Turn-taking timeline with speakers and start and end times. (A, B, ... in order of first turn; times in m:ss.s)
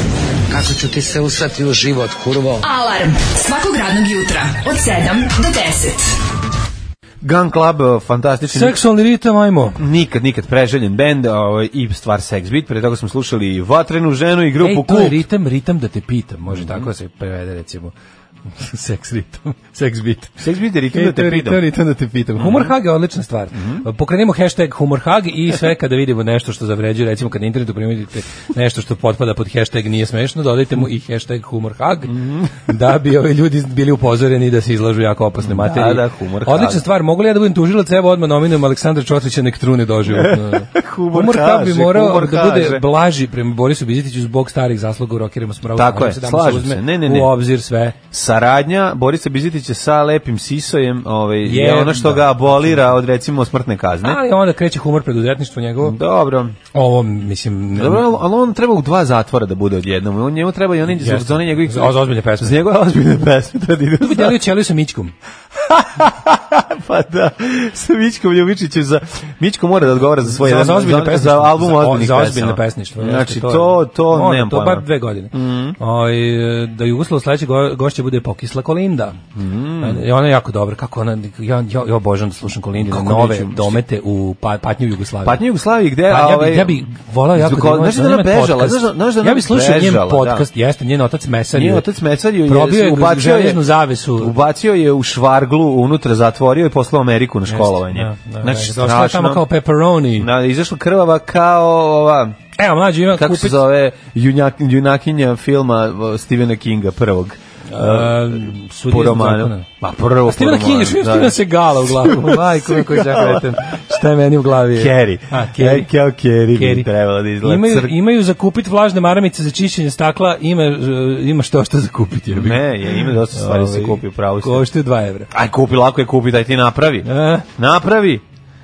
0:00.5-0:02.7 A
0:02.6-0:06.2 B
0:07.2-0:08.8 C
0:08.5-0:09.8 D
0:09.8-0:15.2 C
0:14.6-0:17.9 D
0:16.5-0:16.9 C
0:18.5-0:20.4 D
0:20.4-0:21.6 C
0:20.9-0:48.0 D
0:22.4-0:22.7 C
0:23.5-0:23.9 C
0:32.1-0:32.6 C
0:35.4-0:36.8 C
0:40.1-0:42.8 C
0:45.8-0:47.3 C
0:48.1-0:54.2 C
0:51.4-0:53.0 D
0:54.0-0:56.0 D
0:55.8-0:56.6 C
0:56.7-0:58.1 D
0:57.8-1:04.4 C
1:00.9-1:02.6 D
1:04.0-1:05.1 D
1:05.6-1:15.8 C
1:10.2-1:19.2 D
1:19.4-1:20.0 C
1:19.8-1:25.4 D
1:22.8-1:23.8 C
1:25.2-1:26.8 C
1:26.1-1:31.9 D
1:27.3-1:30.5 C
1:31.5-1:39.4 C
1:32.4-1:34.3 D
1:37.5-1:40.3 D
1:40.2-1:42.4 C
1:42.6-1:43.6 D
1:43.1-1:53.8 C
1:47.7-1:49.7 D
1:50.3-1:55.9 D
1:54.7-1:57.9 C
1:56.5-1:56.9 D
1:57.4-2:05.3 D
2:02.3-2:04.7 C
2:05.3-2:08.2 C
2:07.0-2:07.5 D